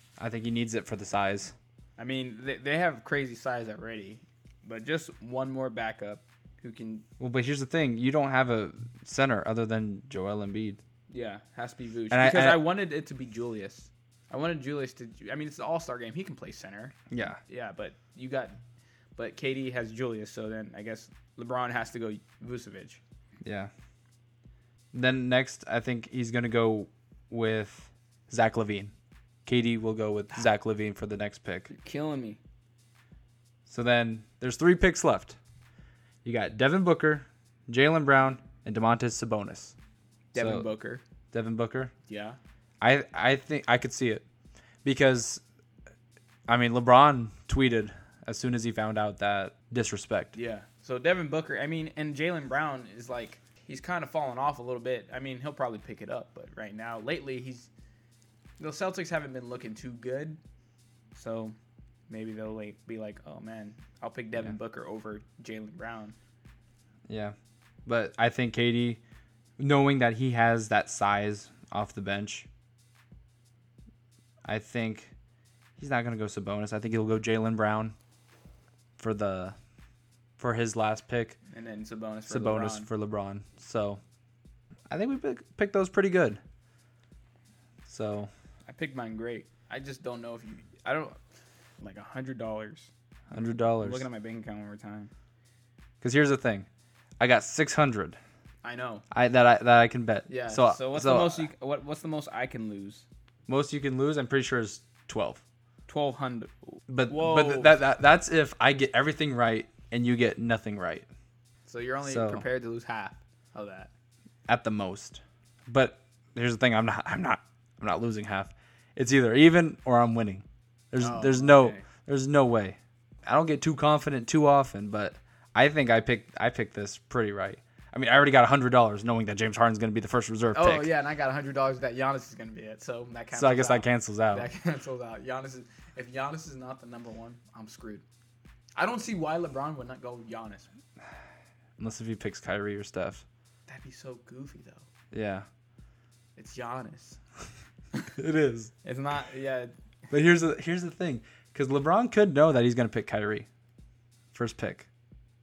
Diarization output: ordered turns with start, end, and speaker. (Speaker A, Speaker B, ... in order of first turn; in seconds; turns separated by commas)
Speaker A: 0.2-1.5, Speaker B: 2.0-7.0, Speaker A: 7.2-10.8, Speaker B: 11.1-18.6, Speaker A: 12.1-12.6, Speaker A: 17.1-17.4, Speaker B: 19.1-23.0, Speaker A: 23.4-23.7, Speaker A: 24.9-28.9, Speaker A: 29.4-31.7, Speaker B: 31.7-32.4, Speaker A: 33.6-35.4, Speaker A: 36.2-39.8, Speaker B: 40.3-41.0, Speaker A: 40.4-40.7, Speaker A: 41.3-41.9, Speaker B: 42.1-42.4, Speaker A: 42.8-44.2, Speaker A: 44.8-45.4, Speaker A: 46.5-50.3, Speaker B: 50.3-57.7, Speaker B: 58.6-60.4, Speaker B: 61.1-61.5, Speaker B: 62.1-66.2, Speaker A: 67.1-67.3, Speaker A: 67.8-69.0, Speaker A: 69.6-72.5, Speaker A: 74.5-75.1, Speaker A: 75.8-77.9, Speaker A: 79.0-79.5, Speaker A: 80.4-81.4, Speaker B: 81.5-82.9, Speaker A: 82.3-84.0, Speaker A: 84.9-86.4, Speaker A: 87.8-88.3, Speaker B: 88.7-91.2, Speaker B: 91.8-92.9, Speaker A: 93.3-94.0, Speaker B: 93.8-95.1, Speaker A: 96.0-96.7, Speaker A: 97.2-98.2, Speaker B: 98.6-99.0, Speaker A: 99.1-101.5, Speaker B: 100.3-103.0, Speaker A: 103.5-105.4, Speaker B: 105.9-106.5, Speaker A: 106.9-111.1, Speaker B: 107.0-107.8, Speaker B: 111.7-113.9, Speaker A: 112.0-112.4, Speaker A: 114.5-130.9, Speaker B: 121.0-121.8, Speaker B: 130.5-138.0, Speaker A: 133.3-134.4, Speaker B: 138.8-140.7, Speaker A: 141.8-143.2, Speaker B: 143.7-144.8, Speaker A: 145.1-145.4, Speaker B: 146.3-147.2, Speaker A: 148.2-148.7, Speaker B: 148.8-149.7, Speaker A: 150.1-153.5, Speaker A: 154.3-154.9